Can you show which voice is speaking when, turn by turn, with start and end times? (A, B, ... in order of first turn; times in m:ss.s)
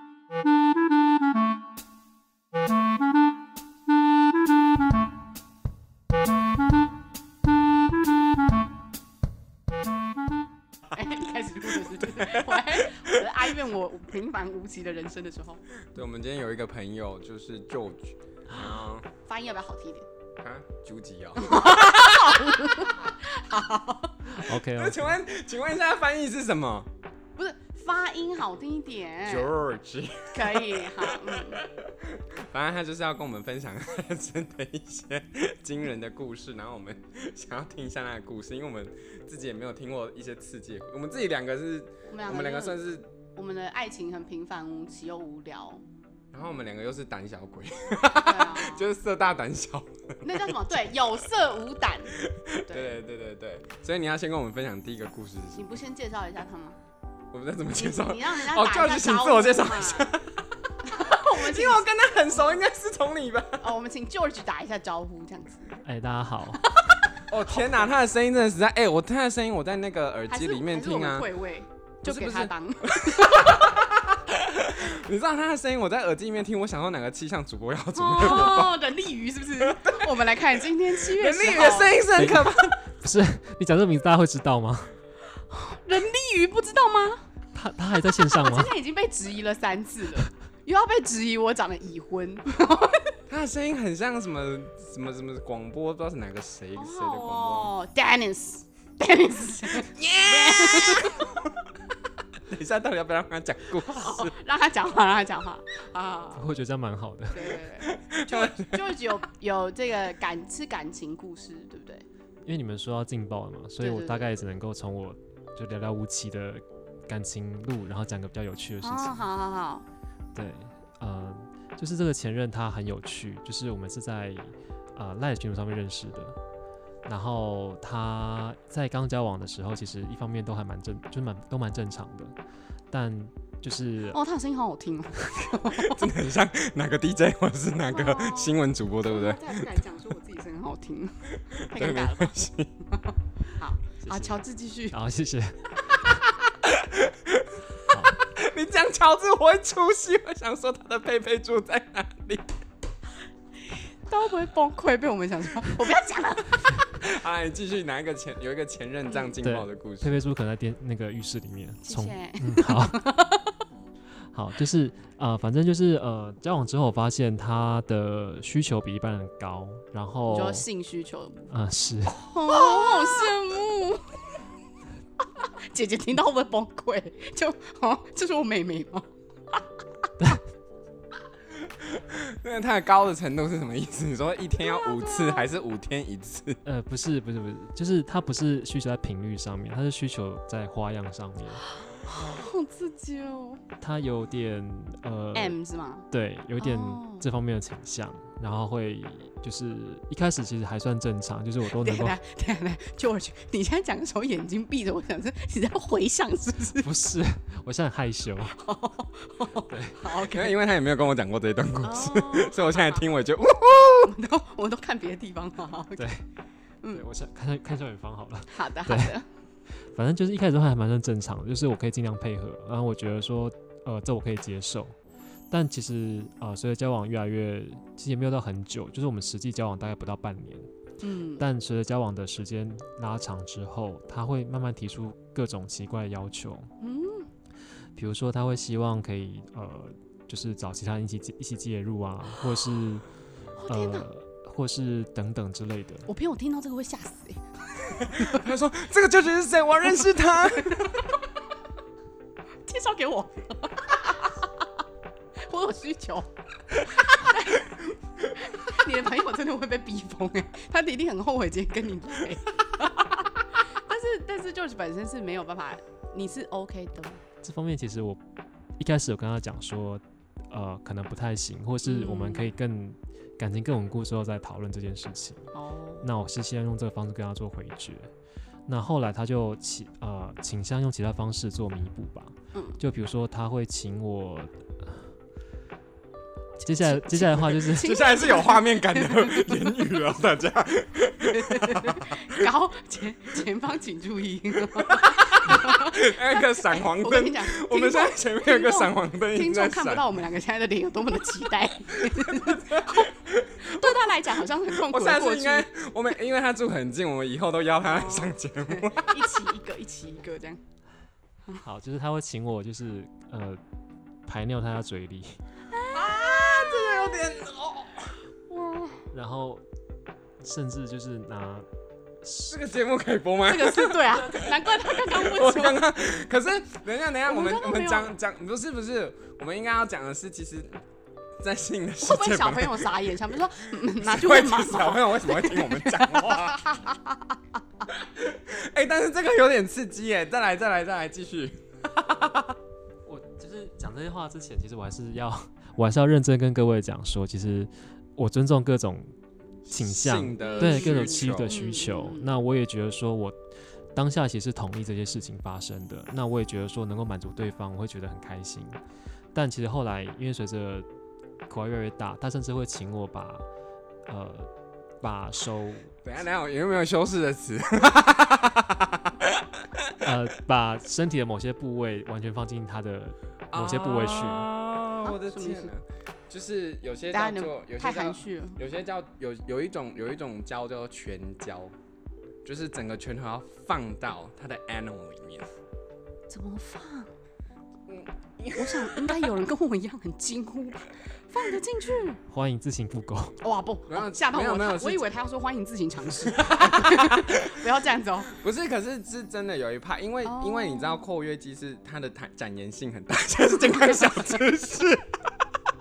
0:10.9-0:15.6 A
0:12.0-0:13.3 B
0:15.9-0:19.1 B
0:19.2-0:20.0 A
0:20.4-0:22.6 B
0:21.4-0:24.3 A
0:24.3-0:25.2 C
0:24.6-0:26.9 B
0:27.4-0:29.5 A
0:29.2-0:43.1 B
0:30.3-0:31.6 A
0:42.1-0:42.8 A
0:43.4-0:45.8 A
0:46.3-0:50.7 B
0:48.1-0:48.9 A
0:50.2-0:52.2 A
0:52.2-0:55.8 B
0:52.7-0:53.0 A
0:55.6-0:56.8 A
0:57.3-1:03.7 B
0:57.8-1:00.1 A
1:00.8-1:02.5 A
1:03.6-1:05.8 A
1:05.8-1:06.6 C
1:06.5-1:06.9 A
1:07.3-1:11.3 B
1:10.3-1:13.7 A
1:12.0-1:18.8 B
1:18.0-1:22.1 A
1:19.6-1:20.2 B
1:20.9-1:22.8 B
1:22.2-1:24.9 C
1:25.5-1:27.2 A
1:27.5-1:28.7 C
1:28.3-1:33.1 A
1:33.3-1:37.7 B
1:36.8-1:41.3 A
1:40.0-1:41.5 B
1:42.4-1:44.4 B
1:43.9-1:46.4 A
1:46.4-1:47.6 C
1:47.3-1:52.0 A
1:47.8-1:49.0 B
1:52.4-1:59.2 C
1:53.8-1:54.3 A
1:58.8-1:59.9 A
2:00.4-2:06.4 C
2:07.1-2:12.4 C
2:12.9-2:14.2 C
2:14.1-2:16.1 A
2:15.7-2:19.5 B
2:17.9-2:25.0 A
2:21.5-2:22.7 B
2:24.0-2:24.4 C
2:24.9-2:26.0 C
2:26.4-2:27.6 B
2:27.9-2:28.2 C
2:28.2-2:32.6 B
2:34.1-2:36.9 A
2:36.9-2:40.2 B
2:39.4-2:43.1 C
2:41.8-2:43.5 A
2:44.3-2:50.7 C
2:50.3-2:51.5 A
2:51.5-2:52.3 C
2:52.2-2:54.3 A
2:55.2-2:59.6 A
3:01.6-3:06.6 B
3:04.6-3:05.5 A
3:06.6-3:11.7 C
3:12.0-3:13.6 A
3:13.8-3:15.6 C
3:15.3-3:16.1 A
3:16.1-3:22.2 C
3:16.6-3:17.3 A
3:21.7-3:26.9 A
3:26.8-3:28.6 C
3:28.5-3:30.6 A
3:29.7-3:30.0 C
3:30.2-3:34.2 B
3:31.8-3:33.1 A
3:33.7-3:36.1 A
3:36.0-3:36.2 C
3:36.9-3:39.2 C
3:38.5-3:39.2 A
3:39.7-3:45.0 C
3:45.5-3:50.7 C
3:51.0-3:51.4 A
3:51.4-3:56.7 C
3:56.8-3:57.3 A
3:58.0-4:03.1 C
4:03.6-4:04.1 A
4:03.7-4:06.1 C
4:06.1-4:08.4 A
4:07.8-4:11.2 B
4:10.5-4:11.1 A
4:12.6-4:14.5 A
4:15.4-4:27.2 A
4:27.4-4:28.2 C
4:28.8-4:35.5 C
4:31.8-4:32.5 A
4:35.6-4:36.1 A
4:36.0-4:38.1 C
4:38.7-4:45.1 C
4:42.5-4:42.8 A
4:46.6-4:48.0 C
4:46.8-4:49.9 A
4:47.7-4:52.5 B
4:51.2-5:05.7 A
4:54.7-5:00.2 B
5:01.9-5:04.0 B
5:04.6-5:09.5 B
5:07.8-5:10.6 A
5:11.6-5:13.6 C
5:14.3-5:15.4 C
5:15.7-5:17.4 A
5:15.9-5:18.2 B
5:18.5-5:19.1 A
5:19.1-5:19.6 C
5:20.4-5:21.7 C
5:22.2-5:22.6 C
5:22.5-5:30.8 B
5:23.4-5:25.9 A
5:27.2-5:28.2 A
5:31.4-5:33.1 B
5:32.0-5:37.4 A
5:34.0-5:36.7 B
5:37.9-5:42.6 B
5:43.1-5:49.1 C
5:49.6-5:51.6 B
5:49.7-5:53.4 C
5:50.4-5:52.3 A
5:53.9-5:58.8 C
5:59.3-6:00.9 C
6:01.5-6:03.5 C
6:04.1-6:04.5 C
6:05.0-6:06.0 C
6:06.0-6:10.0 B
6:10.0-6:14.5 C
6:13.5-6:21.8 B
6:15.0-6:15.7 A
6:17.1-6:18.6 A
6:22.4-6:25.5 B
6:26.3-6:27.1 A
6:27.9-6:29.3 B
6:28.6-6:32.2 A
6:32.3-6:33.4 C
6:33.4-6:38.4 A
6:33.9-6:35.1 B
6:36.3-6:37.7 B
6:38.3-6:45.1 B
6:40.2-6:41.0 A